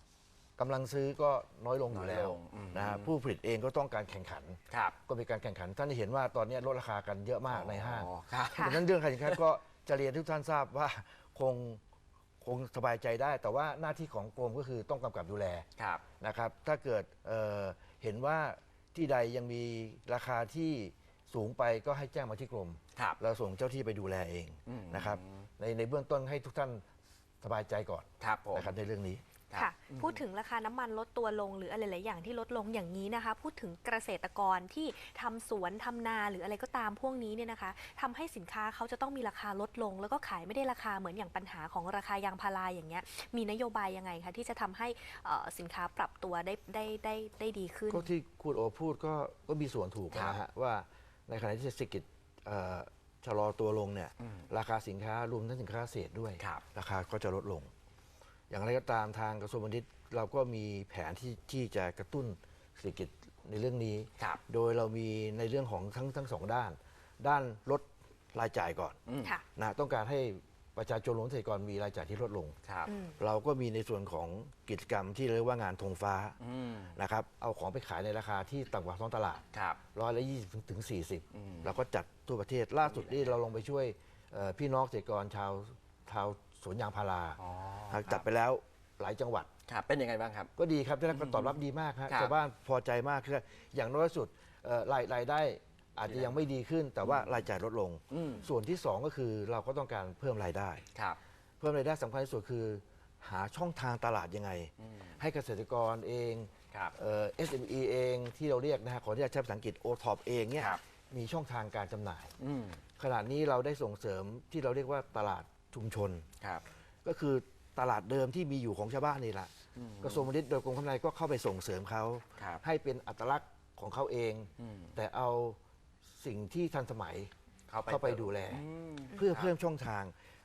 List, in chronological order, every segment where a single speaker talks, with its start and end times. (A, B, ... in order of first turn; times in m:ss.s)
0:00.6-0:11.8 A
0:01.9-0:03.1 B
0:04.7-0:05.0 B
0:07.5-0:09.4 B
0:08.5-0:08.8 C
0:12.4-0:15.7 A
0:15.8-0:16.0 B
0:16.2-0:26.8 A
0:24.7-0:25.5 B
0:27.4-0:29.2 A
0:28.2-0:28.8 B
0:29.5-0:30.2 B
0:29.5-0:48.1 C
0:47.9-0:57.7 A
0:50.1-0:50.4 B
0:54.2-0:54.5 B
0:58.5-1:09.0 A
1:09.1-1:09.3 B
1:09.6-1:12.6 A
1:12.7-1:12.9 B
1:12.9-1:13.2 C
1:13.2-1:16.4 A
1:16.4-1:17.0 B
1:16.9-1:29.5 A
1:19.5-1:19.8 B
1:21.3-1:21.8 B
1:22.9-1:23.4 B
1:27.4-1:28.3 B
1:29.7-1:30.5 B
1:30.6-1:40.8 A
1:31.1-1:31.6 B
1:32.1-1:32.4 B
1:36.0-1:36.4 B
1:37.0-1:37.5 B
1:38.1-1:38.5 B
1:41.6-1:52.3 A
1:44.8-1:45.2 B
1:52.4-1:52.8 B
1:53.0-1:56.3 A
1:57.0-1:59.5 A
1:59.8-2:00.3 B
2:00.0-2:05.6 A
2:02.4-2:02.6 B
2:04.6-2:04.9 B
2:06.2-2:07.3 A
2:07.7-2:09.5 B
2:07.9-2:10.2 A